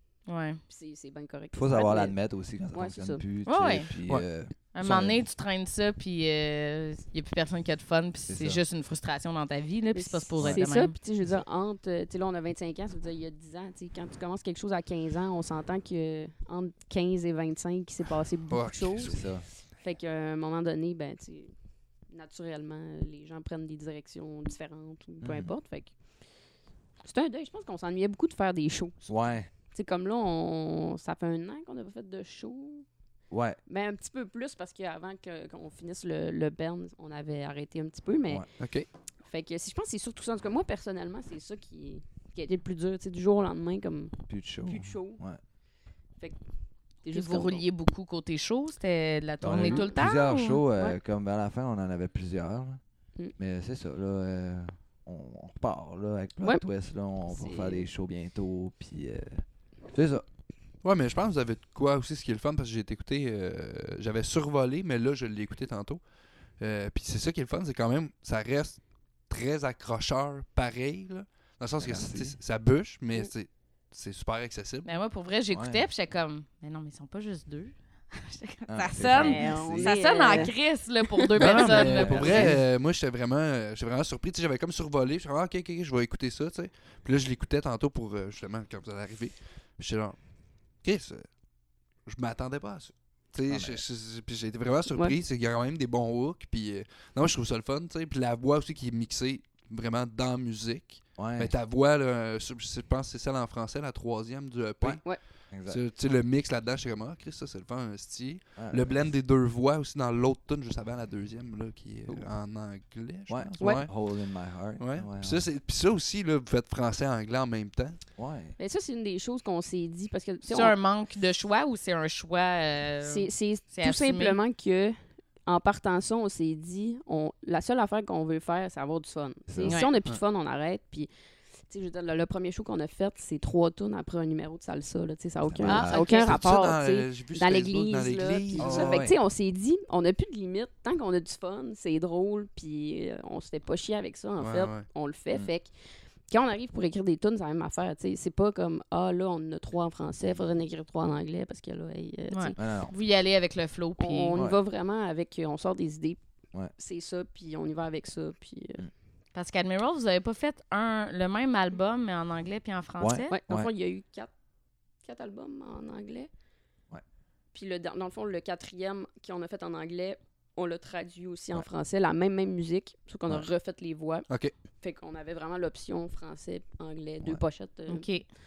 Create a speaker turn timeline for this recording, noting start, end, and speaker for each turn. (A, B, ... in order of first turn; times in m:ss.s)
0:00.3-0:00.6 A
0:00.7-0:03.2 B
0:01.5-0:05.2 C
0:03.4-0:03.9 A
0:04.7-0:11.0 A
0:08.3-0:08.6 C
0:09.9-0:21.5 B
0:10.4-0:10.6 C
0:18.5-0:19.2 D
0:19.0-0:19.4 C
0:22.1-0:25.9 B
0:25.2-0:25.5 C
0:27.0-0:29.1 B
0:29.1-0:29.5 C
0:29.7-0:32.8 B
0:33.3-0:33.6 C
0:33.7-0:38.4 B
0:38.6-0:38.9 D
0:39.2-0:45.2 B
0:44.3-0:45.4 C
0:47.0-0:47.6 B
0:47.1-0:50.6 A
0:49.4-0:52.8 C
0:53.4-1:00.2 C
0:57.3-0:57.8 B
1:00.8-1:06.0 D
1:06.6-1:14.9 D
1:11.8-1:12.4 C
1:14.8-1:22.5 A
1:15.5-1:15.8 C
1:18.7-1:20.4 C
1:19.1-1:20.5 B
1:21.1-1:21.6 B
1:21.4-1:30.2 D
1:21.7-1:22.6 C
1:30.8-1:31.3 D
1:32.0-1:53.9 D
1:33.5-1:33.8 C
1:34.9-1:35.1 B
1:41.2-1:41.5 C
1:44.8-1:45.8 C
1:48.6-1:49.0 C
1:53.3-1:55.4 C
1:54.8-1:58.0 D
1:58.2-1:58.6 C
1:58.6-2:00.8 B
2:00.5-2:04.4 A
2:03.0-2:11.1 B
2:09.5-2:09.8 C
2:09.6-2:09.9 A
2:11.7-2:25.7 B
2:15.4-2:16.1 C
2:15.6-2:16.4 A
2:16.0-2:19.0 D
2:18.6-2:19.2 C
2:24.4-2:24.9 D
2:26.3-2:32.7 B
2:32.3-2:34.3 A
2:32.6-2:32.9 C
2:34.0-2:36.2 B
2:36.8-2:38.9 B
2:39.3-2:43.4 A
2:43.0-2:43.7 C
2:43.3-2:44.3 B
2:45.0-2:46.3 B
2:47.5-2:54.3 B
2:54.8-2:58.1 B
2:57.9-2:58.3 A